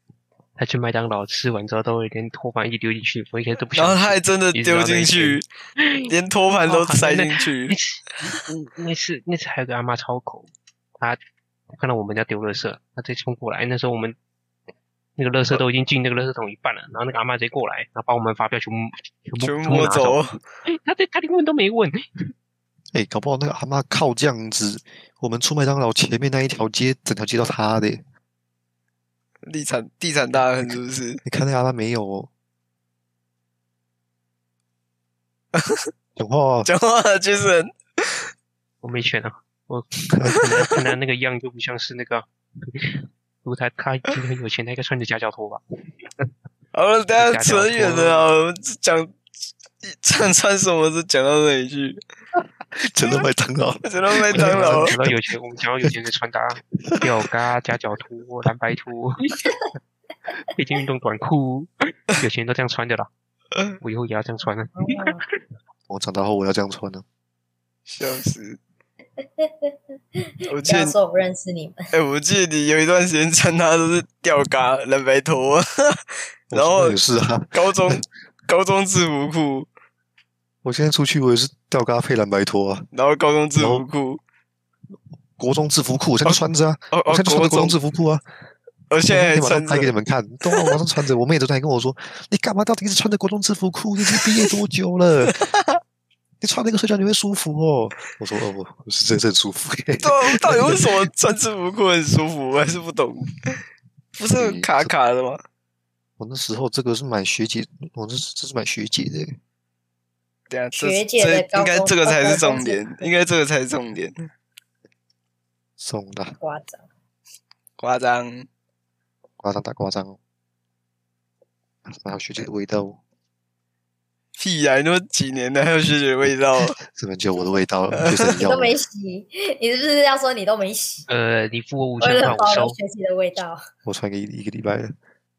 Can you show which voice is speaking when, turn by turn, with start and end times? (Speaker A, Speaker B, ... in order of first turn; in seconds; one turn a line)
Speaker A: 0.6-11.2
Speaker B: 3.7-5.5
Speaker B: 6.1-7.8
Speaker A: 11.7-14.2
Speaker A: 15.2-22.0
Speaker B: 19.4-20.4
Speaker C: 22.9-28.0
Speaker B: 29.5-31.2
Speaker C: 31.2-32.3
Speaker B: 35.5-35.9
Speaker C: 36.2-36.7
Speaker B: 36.6-38.3
Speaker A: 38.8-45.6
Speaker C: 40.1-40.4
Speaker B: 46.7-49.1
Speaker A: 47.2-48.3
Speaker B: 49.8-52.0
Speaker C: 52.4-55.2
Speaker B: 53.8-54.9
Speaker A: 54.3-59.4
Speaker C: 56.8-57.2
Speaker A: 60.5-63.1
Speaker A: 63.8-65.3
Speaker D: 64.8-65.2
Speaker C: 65.9-67.0
Speaker B: 67.9-68.6
Speaker D: 69.2-71.9
Speaker B: 70.5-70.9
Speaker B: 71.9-77.0
Speaker C: 76.5-78.0
Speaker B: 77.5-79.7
Speaker C: 80.6-82.9
Speaker B: 82.9-84.2
Speaker C: 83.6-83.8
Speaker C: 85.4-88.2
Speaker B: 86.9-87.8
Speaker B: 88.9-89.9
Speaker C: 89.1-95.3
Speaker B: 90.5-90.8
Speaker B: 94.1-94.5
Speaker B: 95.3-95.8
Speaker C: 96.4-101.1
Speaker B: 100.0-103.6
Speaker B: 104.2-105.4
Speaker C: 104.3-104.9
Speaker C: 106.2-109.4
Speaker B: 110.5-114.1
Speaker D: 110.8-113.1
Speaker C: 115.8-116.3
Speaker D: 116.4-116.8
Speaker B: 117.8-118.5
Speaker C: 119.4-120.2
Speaker C: 121.8-123.0
Speaker B: 124.4-126.8
Speaker C: 126.8-128.7
Speaker B: 128.0-128.3
Speaker D: 128.4-131.1
Speaker A: 131.1-132.8
Speaker D: 132.0-133.6
Speaker C: 133.8-134.9